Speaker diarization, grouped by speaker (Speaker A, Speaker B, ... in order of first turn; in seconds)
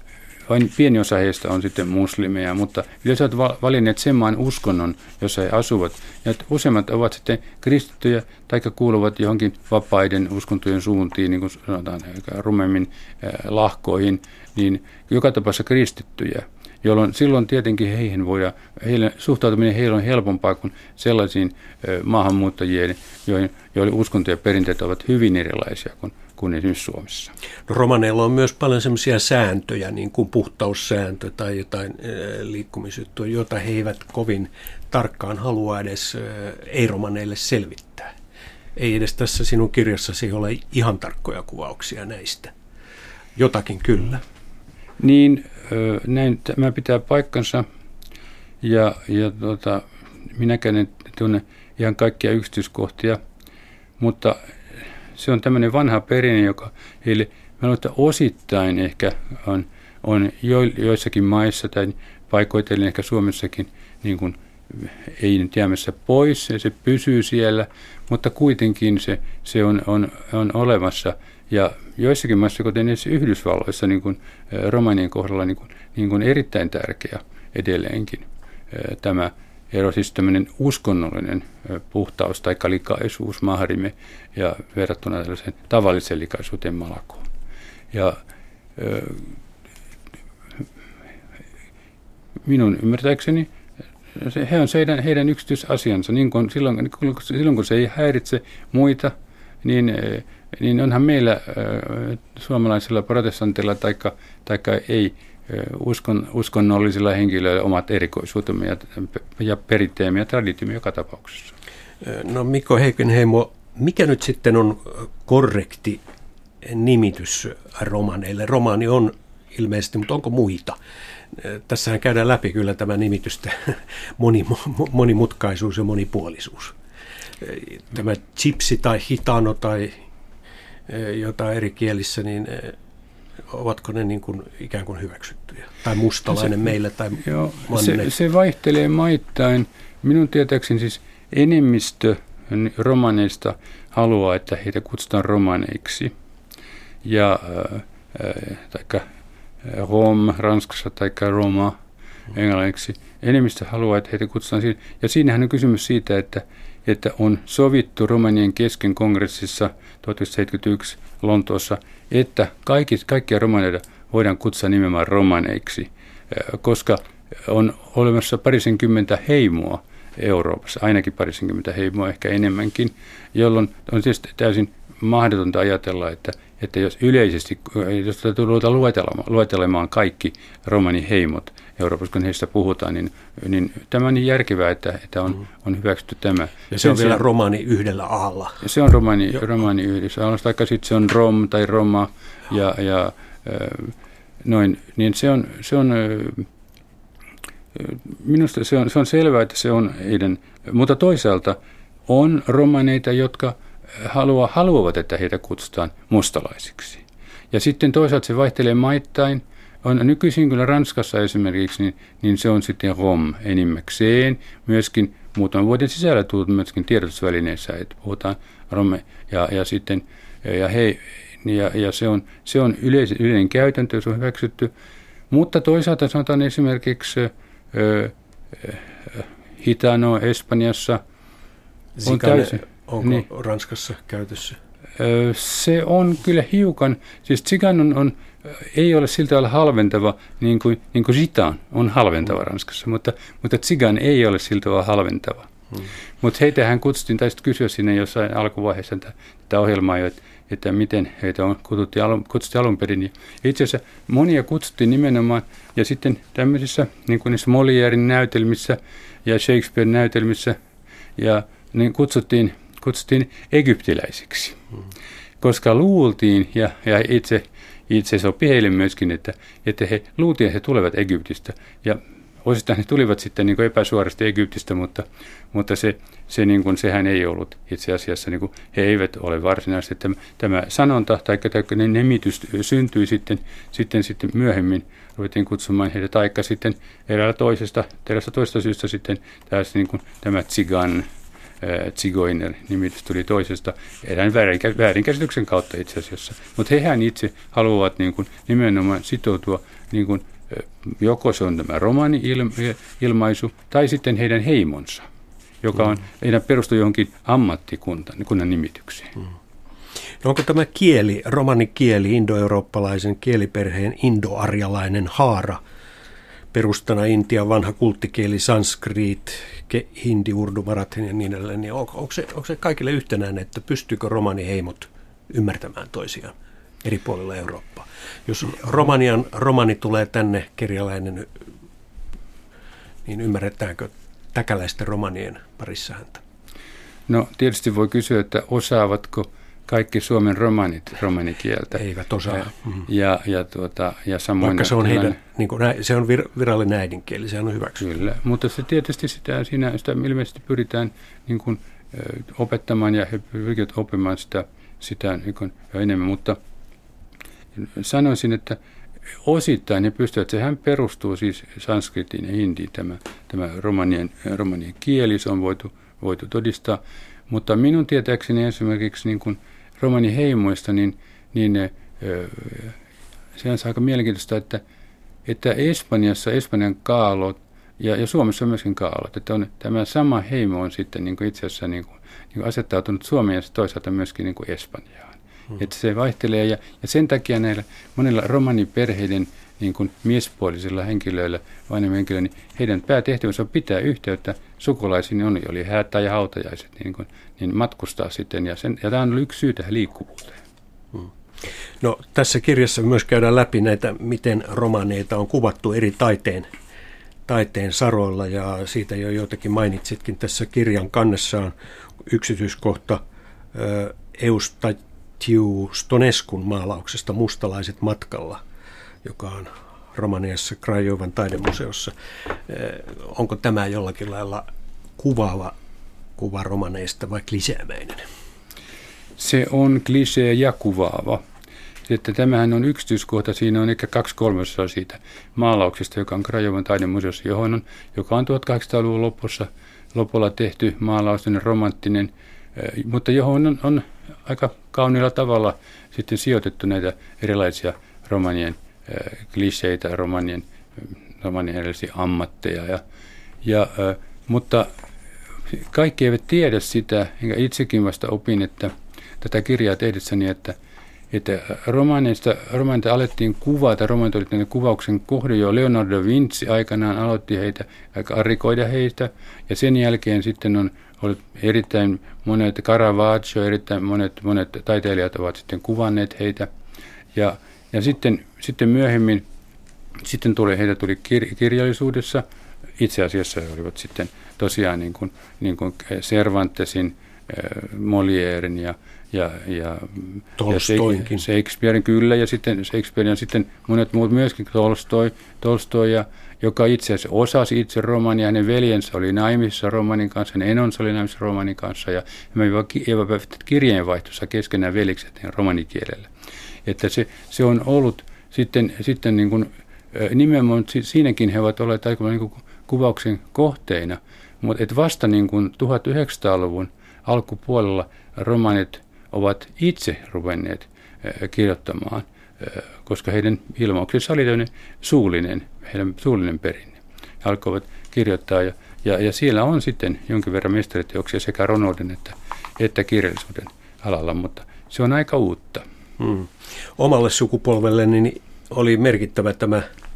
Speaker A: 0.5-27.3, 45.0-47.7, 48.6-53.2, 54.0-87.3, 87.9-88.2, 88.8-89.4, 92.5-93.5, 94.1-111.5, 137.2-146.1, 147.0-149.1, 149.6-151.8, 152.3-187.2, 188.6-196.5, 197.7-224.7, 225.3-231.0, 232.1-233.2, 235.0-245.5, 246.2-260.6, 261.2-264.6, 265.4-291.1, 291.6-305.1, 305.6-309.2, 337.1-341.8, 342.3-345.2, 347.8-356.4, 357.6-358.6, 359.2-372.8, 373.4-374.6, 375.3-400.4, 429.2-431.2, 431.9-452.8, 453.4-454.7, 455.5-460.6, 461.1-476.5, 477.1-479.2, 480.0-482.2, 482.8-506.1, 506.6-535.6
Speaker B: 27.7-38.1, 38.8-42.5, 43.4-44.2, 112.0-116.0, 116.6-120.8, 121.3-126.8, 127.4-130.0, 130.9-132.8, 133.5-138.1, 186.7-188.7, 232.0-234.6, 310.2-315.6, 316.5-331.3, 333.1-336.2, 341.8-342.9, 344.4-347.9, 400.9-406.5, 407.3-411.5, 412.1-413.0, 413.5-418.4, 419.0-425.6, 426.2-428.1, 490.4-491.2, 536.0-539.6